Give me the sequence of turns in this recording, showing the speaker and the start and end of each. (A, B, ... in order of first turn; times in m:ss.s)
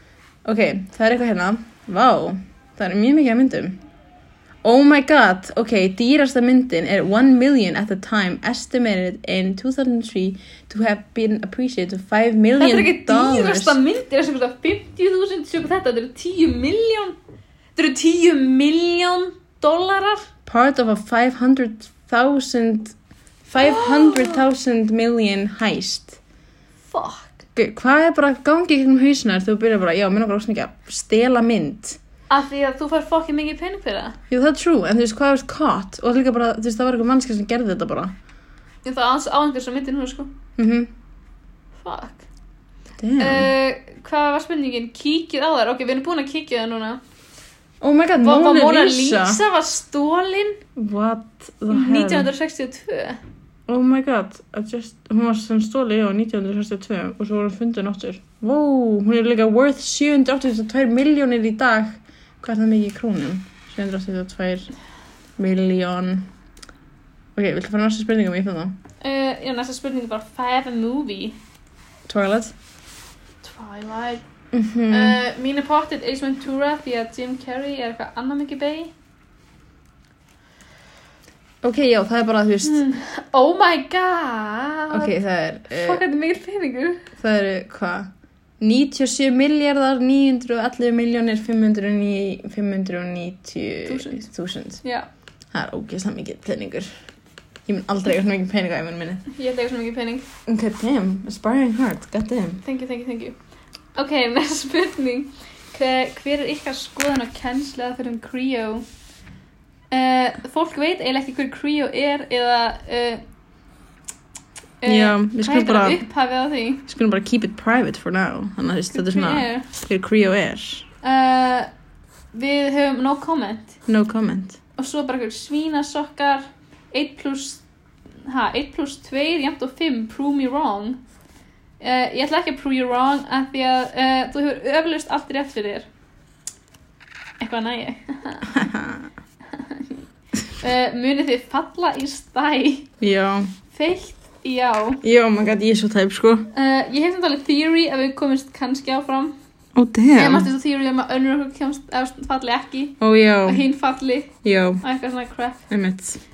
0:00.4-0:03.8 A
0:04.6-0:13.8 A
0:12.6-0:17.2 B
0:17.8-0:20.3 B
0:20.5-0:26.2 A
0:23.6-0:24.4 B
0:26.9-0:27.4 B
0:27.5-0:32.0 A
0:32.3-0:34.2 B
0:34.3-0:38.1 A
0:38.8-0:40.3 B
0:40.6-0:40.9 A
0:41.8-0:42.2 B
0:43.0-0:43.5 A
0:43.2-0:47.0 B
0:47.8-0:49.4 A
0:48.2-0:50.6 B
0:50.8-0:52.3 A
0:51.7-0:53.2 B
0:53.7-1:04.7 A
1:05.4-1:06.3 A
1:07.4-1:08.8 A
1:09.0-1:11.4 B
1:12.1-1:12.5 A
1:13.4-1:14.2 B
1:14.5-1:15.2 A
1:14.9-1:18.9 B
1:21.6-1:22.9 A
1:22.6-1:25.1 B
1:24.9-1:26.0 A
1:25.7-1:27.1 B
1:27.2-1:34.8 A
1:33.9-1:34.2 B
1:34.8-1:35.1 B
1:35.5-1:36.9 A
1:37.6-1:39.2 A
1:39.3-1:40.2 B
1:40.5-1:42.6 A
1:42.6-1:43.4 B
1:44.0-1:48.8 B
1:49.9-1:53.2 B
1:54.8-1:56.8 B
1:54.9-1:56.0 A
1:56.9-2:00.9 A
1:58.9-1:59.6 B
2:01.0-2:01.7 B
2:02.3-2:03.8 B
2:03.9-2:04.6 A
2:04.8-2:07.6 B
2:08.2-2:11.0 B
2:11.8-2:15.9 B
2:17.4-2:18.6 B
2:18.5-2:19.1 A
2:19.5-2:22.9 B
2:23.0-2:23.5 A
2:23.7-2:25.0 B
2:25.0-2:26.5 A
2:26.5-2:29.3 B
2:29.8-2:30.5 A
2:30.1-2:35.7 B
2:33.0-2:33.6 A
2:34.4-2:34.8 A
2:35.7-2:36.2 A